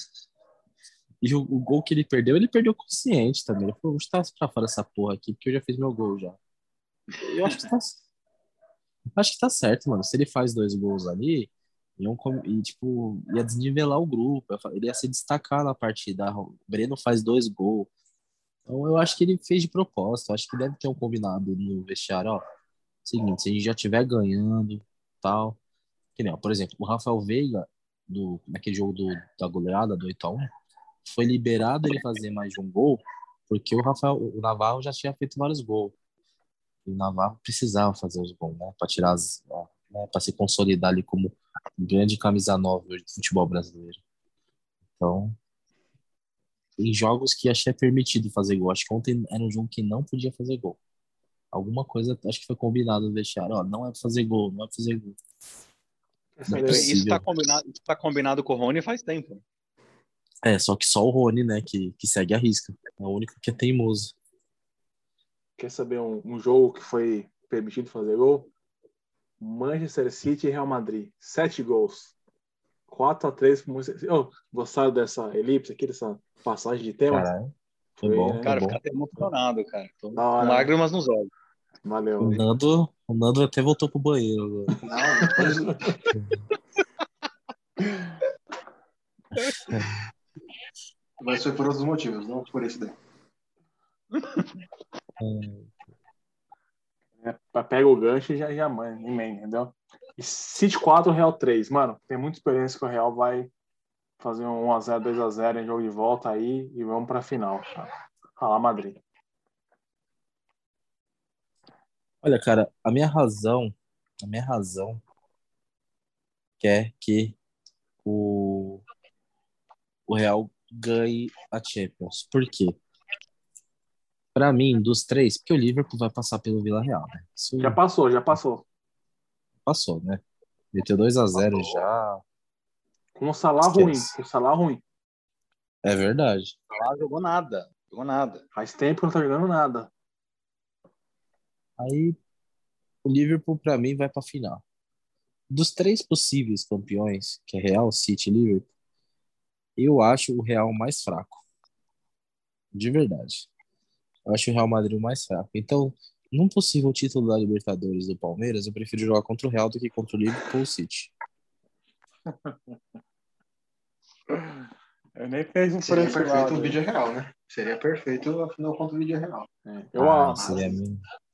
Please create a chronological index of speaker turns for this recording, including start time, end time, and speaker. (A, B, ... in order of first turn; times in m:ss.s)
0:01.2-0:06.4 A
0:07.1-0:07.6 B
0:07.2-0:08.0 A
0:09.1-0:17.9 A
0:18.7-0:22.4 A
0:23.0-0:25.6 A
0:26.2-0:30.5 A
0:31.0-0:35.9 A
0:36.8-0:44.0 A
0:45.0-0:45.4 A
0:46.8-0:50.8 A
0:51.5-0:55.2 A
0:56.4-0:56.9 C
0:56.5-0:57.3 A
0:56.7-0:59.4 B
1:00.4-1:04.1 A
1:05.6-1:08.5 C
1:09.4-1:12.1 C
1:12.9-1:17.3 C
1:17.1-1:18.8 A
1:18.0-1:18.5 C
1:18.4-1:21.3 B
1:20.2-1:20.7 C
1:21.8-1:22.4 C
1:22.2-1:24.7 A
1:24.8-1:26.0 D
1:26.1-1:26.4 A
1:29.6-1:30.0 A
1:31.2-1:33.0 D
1:34.1-1:34.5 B
1:35.2-1:35.7 A
1:37.2-1:43.5 C
1:44.2-1:49.0 C
1:52.2-1:55.0 A
1:56.6-1:57.4 A
1:58.0-1:58.9 A
2:00.1-2:02.8 A
2:04.4-2:07.8 A
2:07.6-2:08.6 C
2:09.6-2:12.2 A
2:11.4-2:11.8 B
2:13.1-2:14.8 C
2:13.6-2:14.1 A
2:15.8-2:16.6 A
2:16.7-2:18.4 B
2:18.5-2:19.9 C
2:21.8-2:22.2 A
2:23.0-2:24.6 A
2:25.5-2:28.7 A
2:29.8-2:31.4 A
2:32.7-2:33.5 A
2:34.3-2:41.1 A
2:42.3-2:42.6 C
2:44.3-2:46.8 C
2:45.8-2:49.5 D
2:49.7-2:50.4 C
2:50.0-2:51.0 A
2:50.4-2:50.8 D